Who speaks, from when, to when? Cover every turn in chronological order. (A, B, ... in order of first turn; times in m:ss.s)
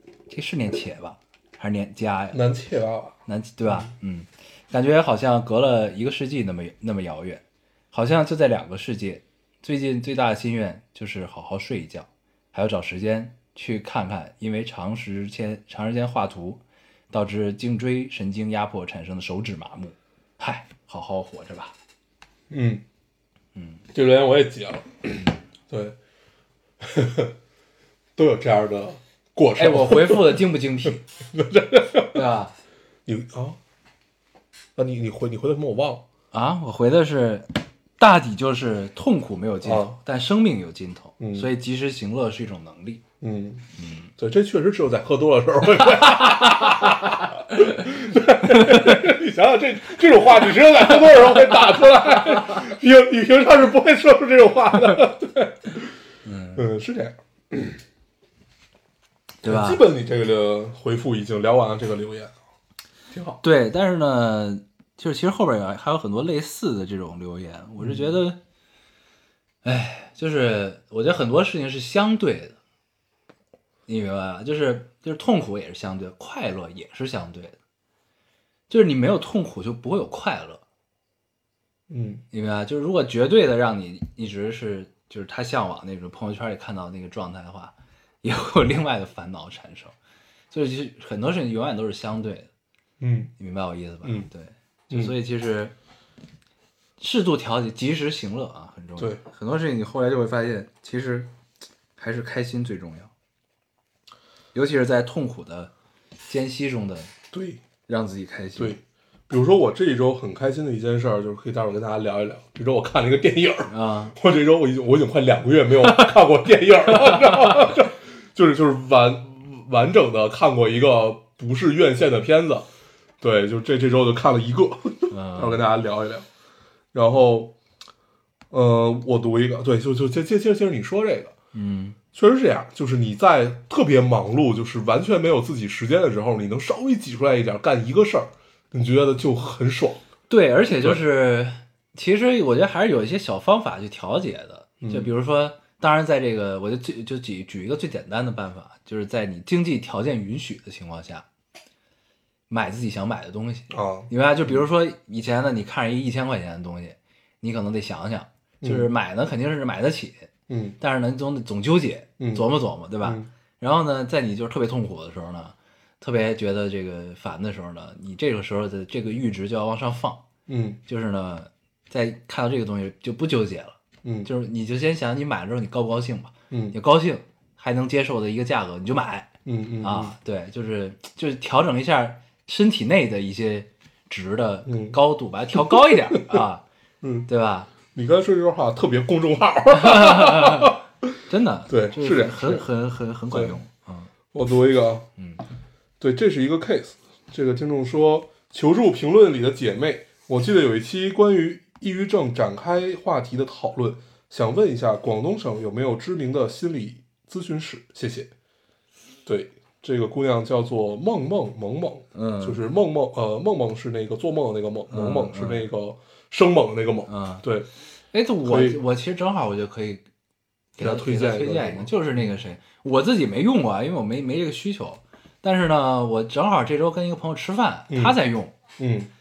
0:00.3-0:02.4 A
0:02.3-0:03.2 B
0:03.3-0:21.7 A
0:22.5-0:22.8 B
0:23.6-0:23.8 A
0:23.9-0:26.0 B
0:26.8-0:27.3 B
0:28.2-0:30.4 B
0:29.6-0:31.0 A
0:31.3-0:32.2 B
0:32.1-0:32.5 A
0:33.1-0:33.6 B
0:34.8-0:36.0 B
0:36.3-0:43.0 A
0:39.6-0:40.0 B
0:41.2-0:41.5 B
0:43.2-0:55.9 B
0:43.8-0:44.1 A
0:46.2-0:46.9 A
0:48.5-0:49.0 A
0:56.2-0:56.6 A
0:56.6-0:57.8 B
0:59.4-0:59.8 A
0:59.4-1:02.3 B
1:03.1-1:03.4 B
1:03.4-1:08.4 A
1:07.8-1:08.1 B
1:09.6-1:12.6 A
1:13.9-1:17.6 A
1:18.7-1:20.6 A
1:21.9-1:22.2 B
1:22.3-1:30.0 A
1:30.5-1:32.5 A
1:33.0-1:33.3 B
1:33.4-1:35.7 A
1:34.0-1:34.3 B
1:37.0-1:41.3 A
1:42.0-1:43.1 A
1:44.5-1:45.7 A
1:46.3-1:47.1 A
1:47.3-1:47.6 B
1:47.9-1:48.8 A
1:48.6-2:02.7 B
1:53.7-1:54.2 A
1:56.9-1:57.7 A
2:03.2-2:06.3 B
2:05.1-2:05.6 A
2:06.9-2:07.6 B
2:08.5-2:11.3 B
2:11.5-2:12.0 A
2:12.1-2:20.0 B
2:20.3-2:31.2 A
2:24.8-2:25.1 B
2:32.5-2:40.3 A
2:33.7-2:34.6 B
2:38.6-2:38.9 B
2:40.5-2:40.8 B
2:40.8-2:50.2 A
2:42.2-2:42.4 B
2:43.0-2:43.3 B
2:50.5-2:50.8 B
2:50.9-2:59.3 A
2:54.0-2:54.3 B
2:56.5-2:56.8 B
2:59.4-3:00.2 B
2:59.8-3:06.6 A
3:04.7-3:05.0 B
3:05.6-3:06.4 B
3:07.0-3:07.3 B
3:07.3-3:07.7 A
3:07.9-3:11.2 B
3:09.7-3:10.8 A
3:11.3-3:14.1 A
3:11.7-3:12.7 B
3:13.3-3:13.6 B
3:14.3-3:15.1 B
3:15.2-3:15.4 A
3:16.0-3:28.3 B
3:29.3-3:37.7 B
3:32.1-3:32.6 A
3:34.9-3:35.6 A
3:37.1-3:37.4 A
3:38.1-3:40.0 A
3:38.4-3:38.8 B
3:40.8-3:48.6 A
3:40.8-3:42.3 B
3:47.9-3:48.2 B
3:48.8-3:49.1 B